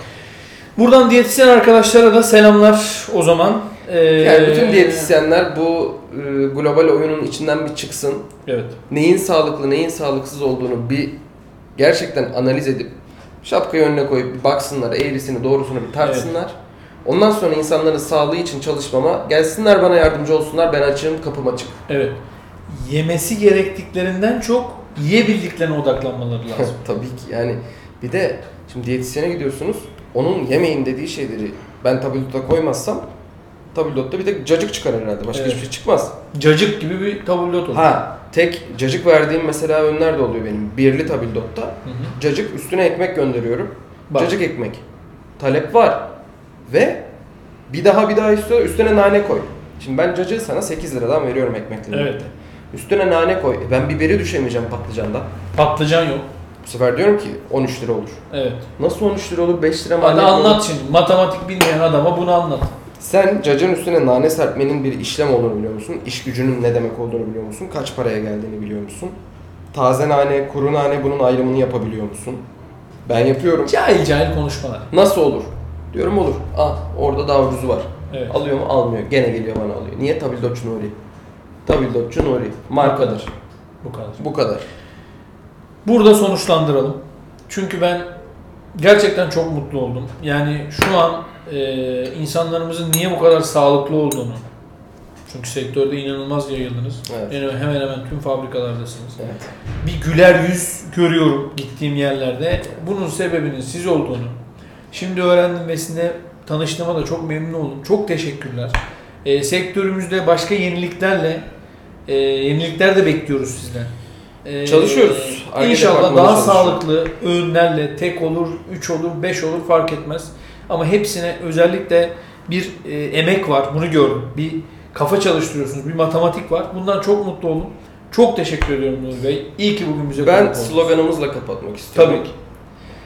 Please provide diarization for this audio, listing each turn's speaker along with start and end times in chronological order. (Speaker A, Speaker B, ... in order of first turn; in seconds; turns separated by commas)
Speaker A: 0.8-5.1, Speaker B: 4.2-8.3, Speaker A: 8.4-8.8, Speaker B: 8.9-11.2, Speaker B: 11.8-21.8, Speaker A: 16.0-16.3, Speaker A: 21.9-22.2, Speaker A: 22.7-26.7, Speaker B: 26.5-33.0, Speaker B: 33.7-36.1, Speaker A: 35.3-35.6, Speaker A: 36.3-37.9, Speaker B: 37.7-44.8, Speaker A: 41.8-42.1, Speaker A: 44.1-44.4, Speaker B: 45.4-46.1, Speaker B: 46.7-47.0, Speaker B: 47.7-55.3, Speaker A: 51.9-52.2, Speaker A: 55.5-56.3, Speaker B: 56.6-58.2, Speaker A: 58.3-58.6, Speaker B: 58.8-60.6, Speaker A: 60.0-62.7, Speaker B: 63.0-69.2, Speaker B: 69.7-72.4, Speaker B: 73.0-73.7, Speaker A: 73.7-74.9, Speaker B: 74.9-80.9, Speaker B: 81.7-83.3, Speaker A: 82.8-83.2, Speaker A: 83.8-84.2, Speaker B: 84.2-84.6, Speaker A: 85.8-88.1, Speaker A: 88.7-94.4, Speaker A: 95.3-99.2, Speaker B: 97.1-97.4, Speaker B: 99.2-99.4, Speaker A: 99.8-104.3, Speaker A: 104.9-111.4, Speaker A: 112.1-113.9, Speaker A: 114.4-130.9, Speaker B: 114.6-116.8, Speaker B: 130.2-132.3, Speaker A: 131.9-132.3